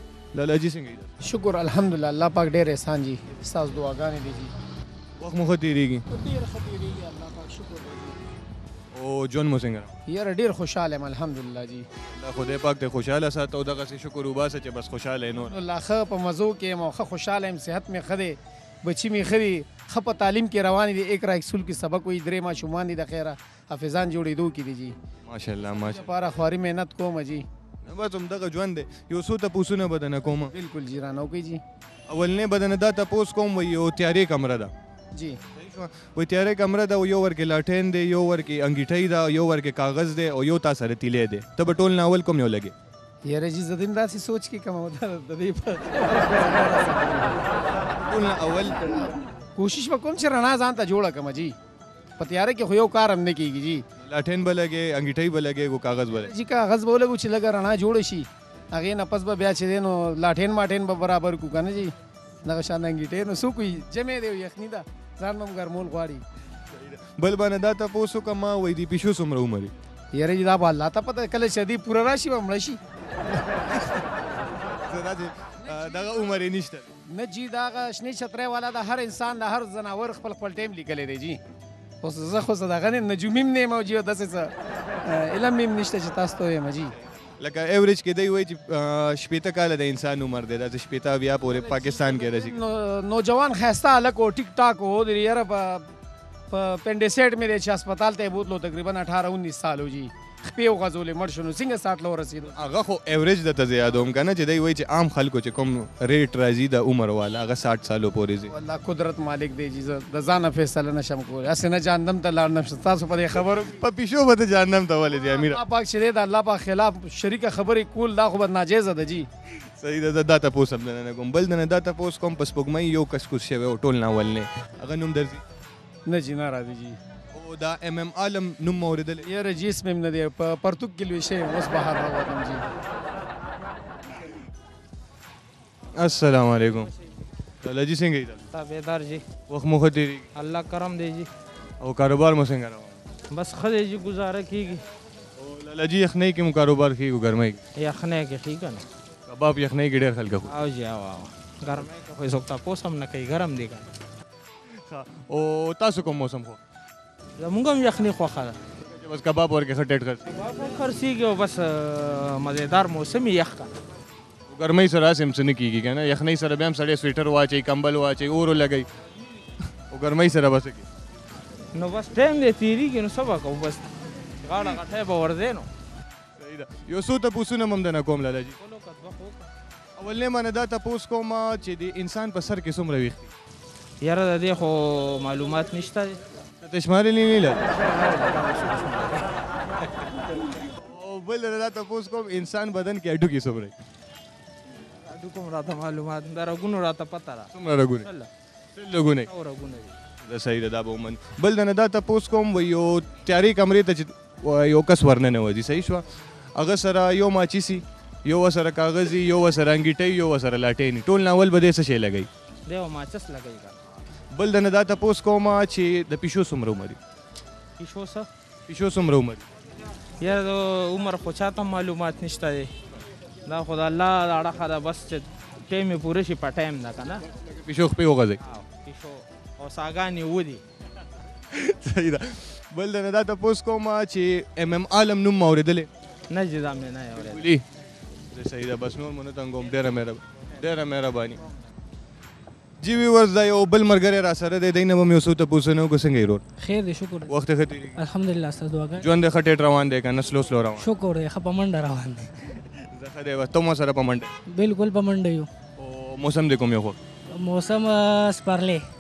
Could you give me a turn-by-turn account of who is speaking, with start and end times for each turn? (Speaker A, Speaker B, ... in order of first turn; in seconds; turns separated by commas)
Speaker A: 0.3-1.1, Speaker B: 1.2-4.5, Speaker A: 5.2-6.0, Speaker B: 7.4-7.9, Speaker A: 8.9-9.9, Speaker B: 10.1-11.9, Speaker A: 12.1-15.6, Speaker B: 15.4-24.9, Speaker A: 25.3-26.1, Speaker B: 25.8-27.5, Speaker A: 27.9-30.5, Speaker B: 30.5-31.6, Speaker A: 32.1-34.7, Speaker A: 35.5-42.7, Speaker B: 43.2-47.4, Speaker A: 47.9-48.9, Speaker B: 48.9-51.6, Speaker B: 52.2-53.8, Speaker A: 54.0-56.3, Speaker B: 56.2-66.2, Speaker A: 66.7-69.7, Speaker B: 70.1-72.8, Speaker A: 73.7-74.0, Speaker A: 74.7-76.9, Speaker B: 75.6-76.2, Speaker B: 77.1-81.4, Speaker B: 82.0-84.5, Speaker B: 85.0-86.9, Speaker A: 87.4-92.6, Speaker B: 91.7-95.9, Speaker B: 96.5-102.7, Speaker A: 102.5-108.5, Speaker B: 108.5-113.8, Speaker A: 113.8-115.6, Speaker B: 115.3-119.3, Speaker A: 119.5-125.4, Speaker B: 126.1-127.0, Speaker A: 127.3-129.3, Speaker B: 129.2-132.6, Speaker A: 135.9-136.9, Speaker A: 137.6-138.5, Speaker C: 138.5-139.2, Speaker A: 139.5-140.3, Speaker C: 140.4-141.3, Speaker A: 141.8-143.0, Speaker C: 143.3-144.8, Speaker A: 145.4-147.6, Speaker C: 147.8-148.8, Speaker A: 149.3-150.6, Speaker C: 150.5-153.8, Speaker A: 154.7-156.6, Speaker C: 157.4-158.6, Speaker A: 158.8-160.3, Speaker C: 160.3-163.7, Speaker A: 164.5-168.9, Speaker A: 169.9-170.9, Speaker C: 171.8-173.9, Speaker C: 174.4-175.7, Speaker A: 176.4-178.6, Speaker C: 178.6-179.5, Speaker A: 180.0-183.3, Speaker C: 184.0-186.2, Speaker A: 186.6-187.7, Speaker C: 187.7-189.2, Speaker A: 190.8-193.7, Speaker C: 195.1-197.5, Speaker A: 197.5-198.1, Speaker C: 198.0-198.3, Speaker A: 198.8-199.3, Speaker C: 199.3-199.9, Speaker A: 200.2-212.3, Speaker C: 212.7-213.8, Speaker A: 214.3-217.0, Speaker C: 217.8-218.3, Speaker A: 218.7-219.4, Speaker C: 220.2-222.7, Speaker C: 223.5-227.3, Speaker A: 227.5-228.4, Speaker C: 228.4-230.6, Speaker A: 231.5-235.9, Speaker C: 236.3-237.5, Speaker A: 237.2-237.6, Speaker A: 238.3-241.4, Speaker A: 242.8-246.4, Speaker D: 246.6-247.3, Speaker A: 247.3-248.0, Speaker D: 248.0-249.1, Speaker A: 249.0-250.9, Speaker D: 250.8-252.6, Speaker A: 252.9-254.3, Speaker D: 254.5-255.5, Speaker A: 255.8-257.0, Speaker D: 257.4-258.8